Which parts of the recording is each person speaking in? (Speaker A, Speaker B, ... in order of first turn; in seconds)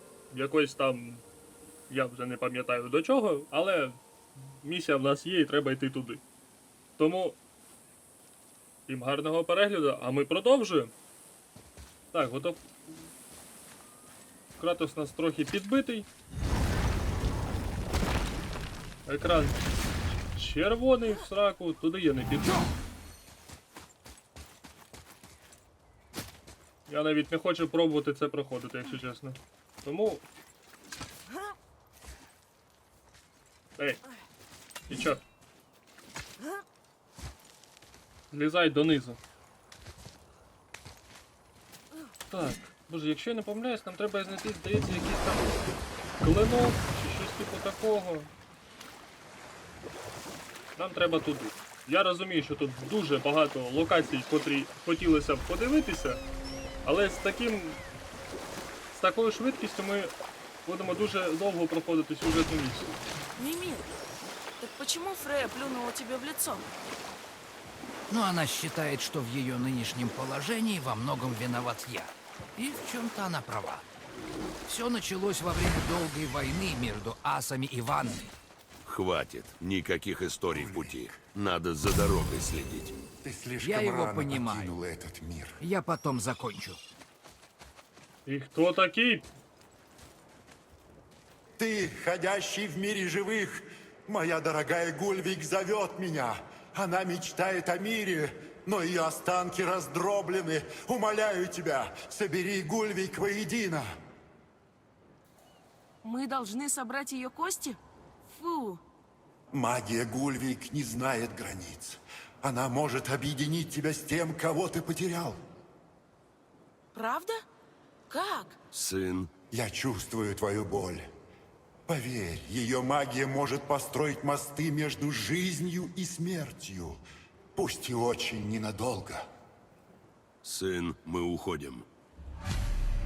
Speaker A: 0.3-1.2, 1.9-4.0, 4.5-6.2, 7.0-7.4, 8.9-10.9, 12.1-12.7, 14.6-16.1, 19.1-19.6, 20.3-22.5, 26.9-30.2, 34.9-35.2, 38.3-39.2, 42.3-45.4, 46.2-48.3, 50.8-56.2, 56.8-57.8, 58.9-60.1, 60.6-62.9, 88.2-89.3
Speaker B: 63.4-63.9, 64.6-66.7, 106.0-108.8, 116.9-117.4, 118.1-118.6
Speaker C: 68.1-73.8, 74.7-78.3, 83.6-84.8, 85.6-86.8
Speaker D: 78.8-82.9, 118.7-119.3, 130.4-131.8
Speaker E: 80.5-81.2, 83.2-85.6, 91.6-103.9, 109.5-115.4, 119.5-121.1, 121.9-127.0, 127.5-129.2